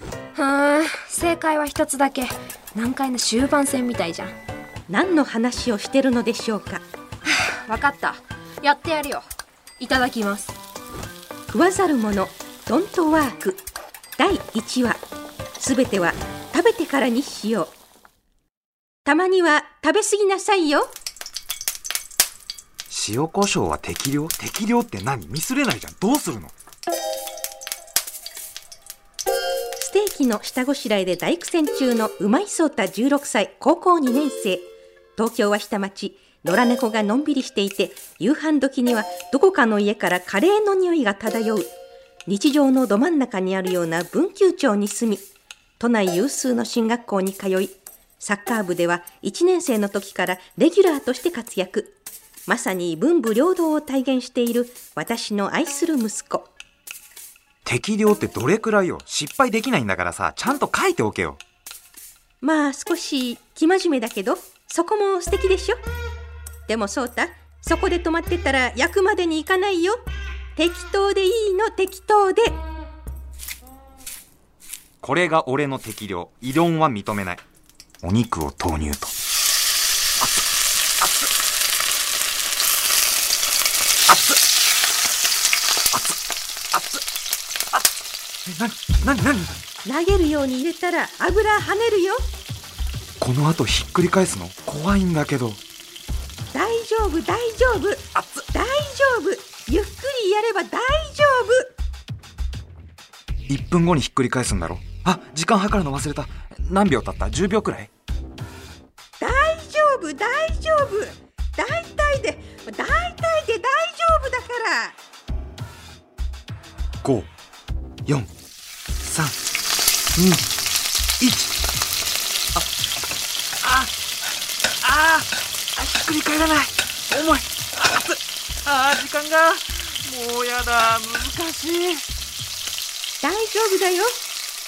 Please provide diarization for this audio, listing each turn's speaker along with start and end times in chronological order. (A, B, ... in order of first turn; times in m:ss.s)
0:00.3-0:04.3 A
0:04.9-0:06.8 B
0:07.2-0:09.2 A
0:09.8-0:10.5 A
0:11.5-0:13.6 B
0:14.2-0:15.0 B
0:15.6-0:17.7 B
0:19.0-0:20.9 B
0:22.9-0:26.5 C
0:29.8-0:34.6 B
0:35.2-0:41.7 B
0:42.3-0:45.2 B
0:45.8-0:51.9 B
0:52.5-0:56.5 B
0:57.6-1:01.4 C
1:02.4-1:05.8 B
1:06.7-1:10.0 B
1:10.6-1:12.6 B
1:15.0-1:17.4 C
1:18.0-1:19.1 C
1:21.0-1:21.3 C
1:24.1-1:24.4 C
1:26.7-1:27.0 C
1:28.4-1:29.6 C
1:29.8-1:32.2 B
1:33.2-1:35.6 C
1:36.5-1:41.7 B
1:38.1-1:38.5 C
1:43.5-1:47.9 C
1:49.2-1:55.0 B
1:57.0-1:57.3 C
1:59.0-1:59.4 C
2:00.1-2:00.4 C
2:01.2-2:01.5 C
2:03.6-2:03.9 C
2:04.8-2:12.0 C
2:13.2-2:14.1 B